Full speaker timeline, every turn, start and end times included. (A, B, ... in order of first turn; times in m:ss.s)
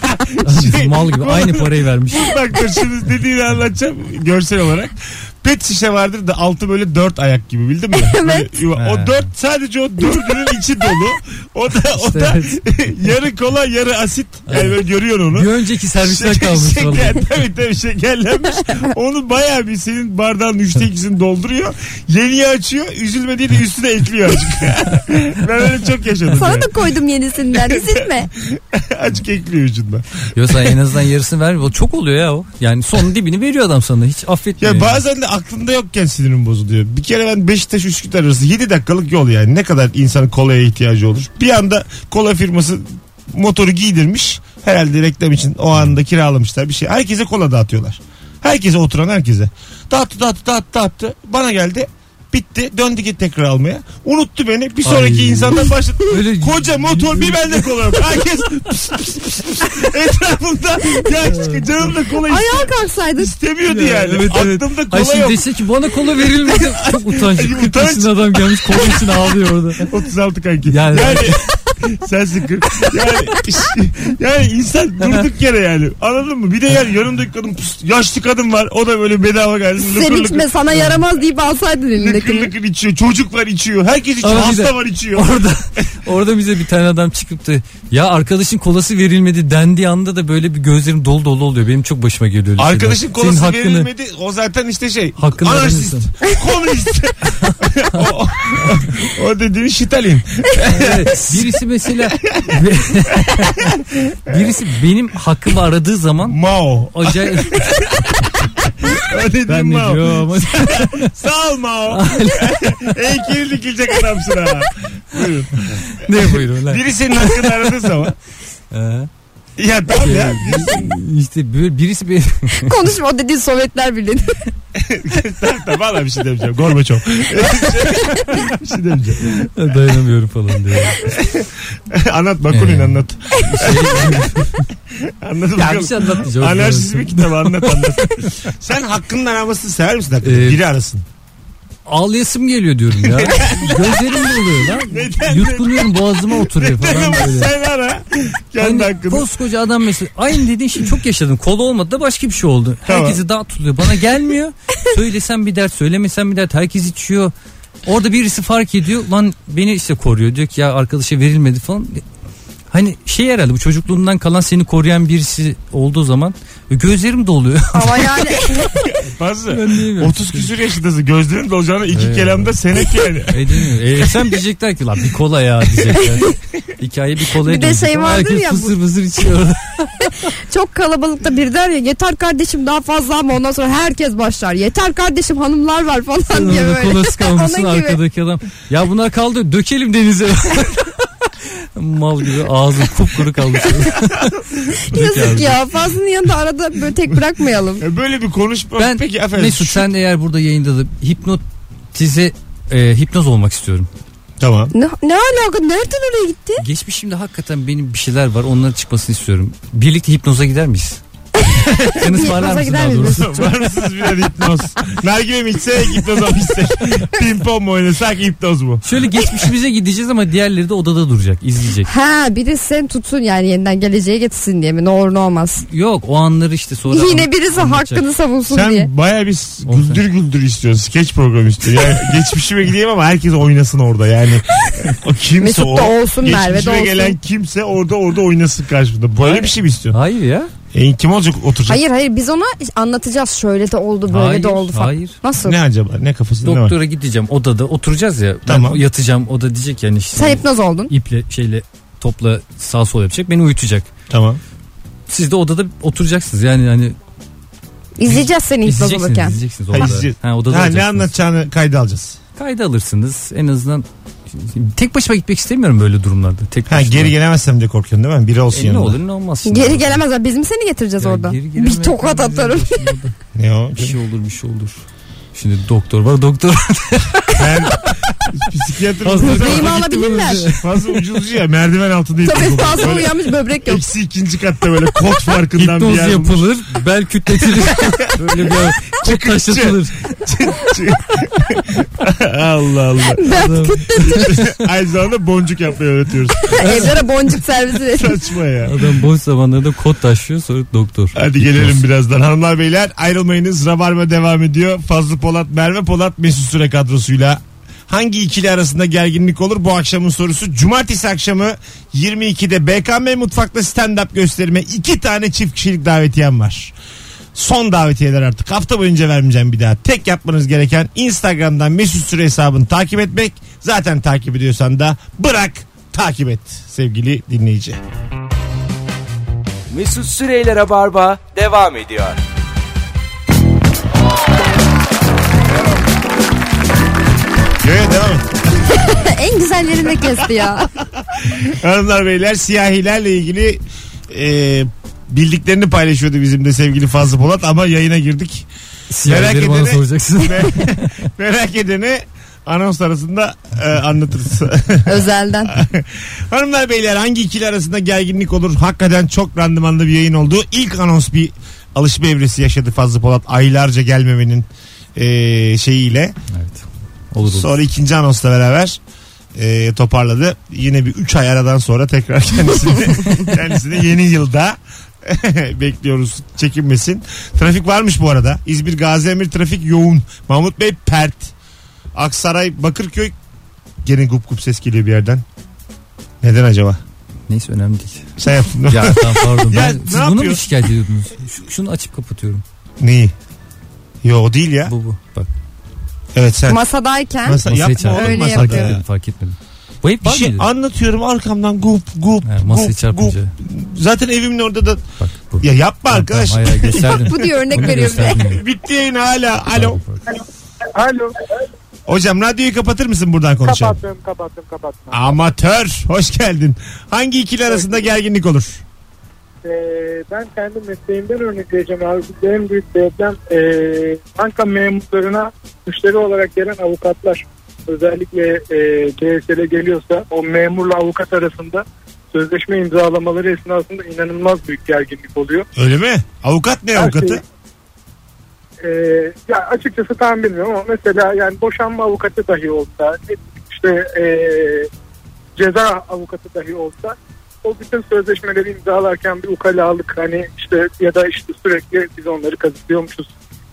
0:00.3-0:26.7 A
0:00.4-0:02.4 B
0:07.9-0:08.6 C
0:08.8-0:09.3 B
0:11.9-0:12.6 B
0:14.5-0:14.8 B
0:15.3-0:17.3 B
0:26.3-0:28.3 C
0:27.5-0:30.8 A
0:30.3-0:35.0 B
0:34.6-1:05.5 A
0:54.8-0:58.2 B
1:01.2-1:01.8 B
1:02.2-1:03.3 C
1:03.7-1:09.9 B
1:06.2-1:09.0 A
1:09.8-1:20.6 A
1:10.7-1:11.5 B
1:19.8-1:22.5 C
1:22.0-1:25.8 A
1:24.2-1:33.9 B
1:32.6-1:41.6 A
1:35.2-1:36.2 B
1:37.3-1:38.9 B
1:40.6-1:46.4 B
1:42.2-1:42.6 A
1:43.3-1:44.4 A
1:46.2-1:58.2 A
1:46.9-1:48.3 B
1:49.5-1:51.1 B
1:51.9-1:53.0 B
1:55.6-1:57.9 B
1:58.7-1:59.1 B
1:59.6-2:01.0 A
1:59.9-2:02.8 B
2:02.5-2:04.4 C
2:04.8-2:09.5 A
2:07.9-2:08.4 C
2:09.3-2:11.1 B
2:11.0-2:21.0 A
2:12.5-2:14.7 B
2:15.6-2:18.3 B
2:20.2-2:20.6 B
2:21.9-2:27.5 B
2:23.0-2:29.3 A
2:28.6-2:37.3 B
2:32.9-2:33.2 A
2:37.9-2:42.0 B
2:42.7-2:48.6 B
2:47.7-2:48.9 C
2:49.0-2:54.2 A
2:49.5-2:50.5 B
2:51.9-2:52.6 B
2:53.3-3:00.3 B
2:56.0-2:56.4 C
2:57.4-2:58.8 C
3:00.1-3:08.0 C
3:06.3-3:15.6 B
3:14.2-3:14.6 A
3:14.8-3:17.8 C
3:17.8-3:19.9 A
3:18.8-3:21.4 B
3:21.9-3:23.9 B
3:24.4-3:24.7 A
3:24.7-3:26.6 C
3:26.6-3:31.0 B
3:31.4-3:33.5 C
3:31.9-3:33.5 B
3:33.0-3:38.9 A
3:38.8-3:41.9 B
3:41.9-3:45.6 C
3:45.7-3:48.0 B
3:46.9-3:48.9 C
3:48.5-4:00.0 A
3:49.7-3:50.0 B
3:55.4-3:57.2 C
3:59.2-4:00.5 B
4:00.7-4:01.8 A
4:01.7-4:05.6 C
4:04.1-4:05.2 B
4:05.4-4:06.8 A
4:06.4-4:13.9 B
4:08.5-4:08.8 A
4:10.2-4:10.9 C
4:14.1-4:14.4 A
4:15.1-4:17.0 B
4:18.0-4:19.4 C
4:18.0-4:21.1 B
4:19.7-4:22.2 A
4:22.4-4:27.1 B
4:26.7-4:29.0 A
4:28.5-4:30.0 B
4:29.4-4:33.0 C
4:31.0-4:33.2 B
4:33.4-4:34.0 A
4:33.8-4:34.8 B
4:35.4-4:37.9 B
4:37.4-4:46.4 A
4:39.0-4:41.0 B
4:39.2-4:40.5 C
4:42.2-4:43.8 C
4:45.5-4:50.0 B
4:48.0-4:53.3 A
4:53.1-4:54.4 C
4:53.2-4:54.4 B
4:54.0-4:56.9 A
4:56.4-4:58.2 C
4:56.5-4:57.0 B
4:57.9-4:58.9 A
4:58.7-5:01.8 B
5:01.2-5:16.7 A
5:17.3-5:27.8 A
5:29.7-5:32.2 D
5:37.6-5:38.3 A
5:38.6-5:40.7 C
5:40.9-5:48.5 A
5:48.9-5:51.1 B
5:49.0-6:06.2 A
5:54.8-5:55.6 C
6:06.3-6:07.6 B
6:07.2-6:08.8 A
6:09.4-6:21.3 A
6:22.0-6:23.2 A
6:23.8-6:25.2 A
6:26.2-6:26.8 A
6:27.3-6:28.1 B
6:28.2-6:30.4 A
6:28.7-6:32.4 B
6:32.8-6:33.1 A
6:34.0-6:34.7 A
6:34.7-6:35.3 B
6:36.2-6:36.6 A
6:36.5-6:38.7 C
6:37.2-6:38.8 A
6:37.4-6:40.5 B
6:40.0-6:44.8 A
6:42.2-6:43.3 B
6:45.0-6:48.4 B
6:45.4-6:49.8 A
6:46.8-6:48.3 C
6:49.5-6:50.0 B
6:50.6-6:51.3 E
6:51.9-6:53.8 A
6:53.4-6:55.1 E
6:54.9-6:58.6 A
6:59.4-7:15.5 E
7:15.6-7:17.2 A
7:16.8-7:17.2 E
7:18.6-7:24.7 E
7:25.4-7:33.1 E